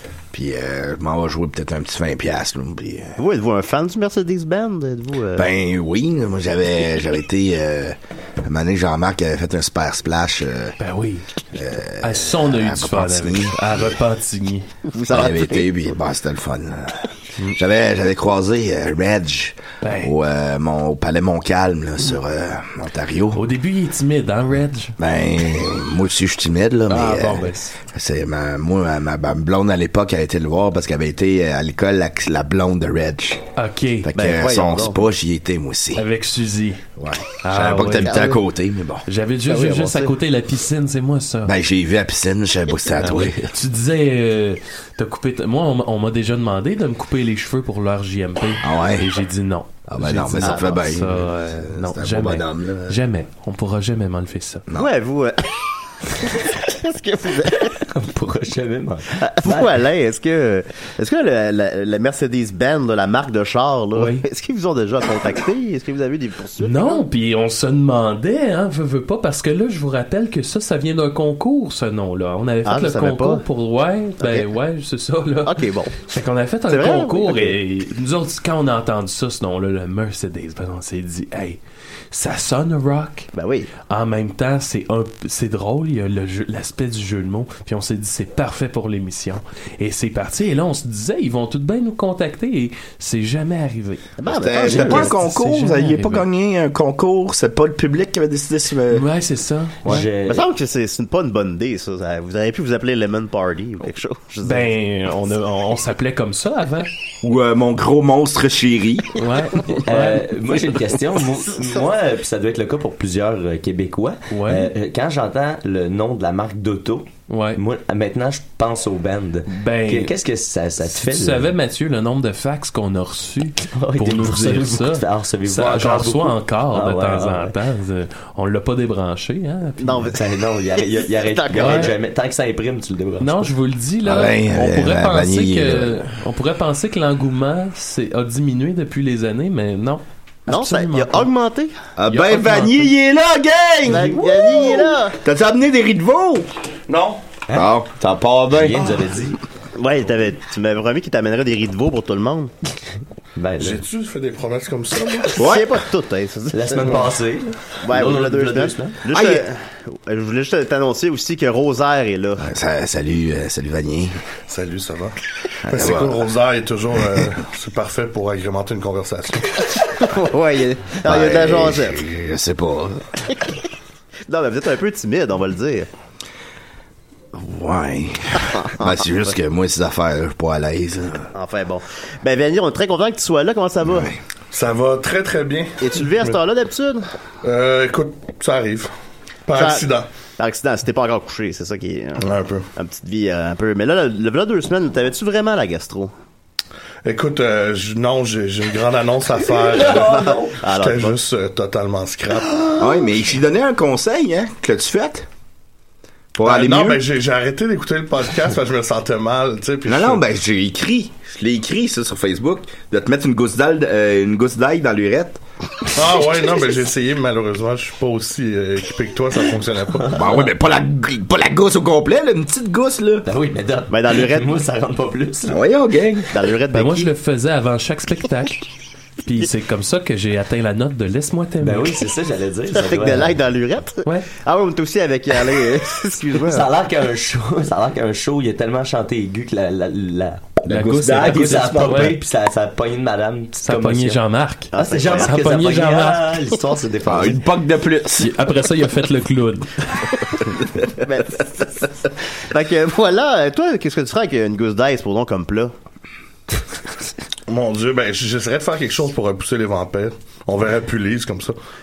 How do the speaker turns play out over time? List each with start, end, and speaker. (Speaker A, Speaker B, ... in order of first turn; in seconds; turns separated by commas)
Speaker A: 0.3-3.2, Speaker B: 3.2-5.5, Speaker A: 5.3-10.8, Speaker C: 10.8-11.2, Speaker A: 11.5-13.8, Speaker C: 12.0-14.7, Speaker B: 14.9-15.7, Speaker A: 15.1-23.4, Speaker C: 19.8-20.1, Speaker C: 23.3-24.9, Speaker A: 25.0-33.5, Speaker C: 26.9-27.7, Speaker C: 33.6-34.1, Speaker A: 34.0-36.1, Speaker B: 34.1-35.0, Speaker C: 36.0-36.8, Speaker A: 37.0-39.1, Speaker C: 37.4-38.4, Speaker B: 38.0-38.4, Speaker C: 39.0-41.5, Speaker B: 39.5-40.1, Speaker A: 41.4-43.5, Speaker C: 43.0-54.6, Speaker A: 48.6-49.1, Speaker A: 49.9-53.0, Speaker B: 50.4-50.8, Speaker B: 54.8-57.9, Speaker D: 57.5-59.8, Speaker B: 59.1-67.0, Speaker C: 63.9-64.2, Speaker C: 66.6-81.6, Speaker B: 72.7-73.4, Speaker B: 74.2-74.5, Speaker B: 75.4-76.0, Speaker B: 76.7-77.6, Speaker C: 82.1-83.3, Speaker B: 83.3-83.7, Speaker C: 83.8-96.2, Speaker B: 94.2-95.2, Speaker A: 94.3-99.0, Speaker C: 98.9-100.0, Speaker D: 99.8-100.5, Speaker B: 99.9-104.7, Speaker C: 104.4-106.9, Speaker A: 107.2-109.2, Speaker C: 109.2-110.3, Speaker D: 109.7-121.5, Speaker C: 114.3-114.7, Speaker C: 117.3-117.6, Speaker C: 119.5-120.1, Speaker C: 120.9-130.1, Speaker D: 123.7-127.5, Speaker B: 129.8-131.9, Speaker D: 130.1-133.5, Speaker C: 131.5-131.9, Speaker C: 133.2-141.3, Speaker A: 134.0-136.0, Speaker B: 140.5-141.7, Speaker A: 142.0-146.5, Speaker C: 142.1-142.9, Speaker B: 143.8-145.2, Speaker E: 146.9-147.2, Speaker A: 147.5-148.9, Speaker D: 148.5-149.4, Speaker B: 149.8-152.5, Speaker D: 153.3-153.8, Speaker E: 153.6-155.4, Speaker B: 155.3-157.2, Speaker A: 155.4-155.8, Speaker D: 156.5-159.0, Speaker B: 157.8-162.4, Speaker A: 159.1-159.4, Speaker A: 162.4-164.2, Speaker E: 164.5-169.7, Speaker A: 165.6-166.2, Speaker A: 167.0-167.3, Speaker B: 169.9-172.1, Speaker A: 171.0-173.1, Speaker B: 174.3-175.9, Speaker A: 177.3-181.3, Speaker B: 178.6-179.1, Speaker B: 181.3-184.1, Speaker A: 183.8-184.2, Speaker E: 184.5-186.3, Speaker B: 185.8-187.1, Speaker E: 187.4-188.9, Speaker E: 189.4-190.1, Speaker B: 189.5-196.1, Speaker E: 192.2-192.7, Speaker E: 197.0-202.8, Speaker D: 199.5-200.6, Speaker B: 199.8-201.2, Speaker A: 202.8-205.3, Speaker A: 206.3-207.0, Speaker E: 206.4-210.2, Speaker A: 209.8-215.4, Speaker E: 215.9-220.2, Speaker A: 220.1-223.3, Speaker D: 223.2-225.6, Speaker B: 223.9-224.6, Speaker A: 225.5-226.3, Speaker B: 226.3-227.1, Speaker C: 226.7-228.7, Speaker C: 229.2-232.1, Speaker D: 231.6-233.4, Speaker B: 232.7-236.7, Speaker C: 234.0-234.3, Speaker D: 236.4-244.2, Speaker A: 240.7-242.2, Speaker C: 240.7-242.2, Speaker C: 243.6-246.3, Speaker B: 244.7-245.4, Speaker D: 244.7-247.4, Speaker A: 247.0-248.4, Speaker C: 248.2-250.2, Speaker B: 251.0-255.7, Speaker E: 257.5-261.6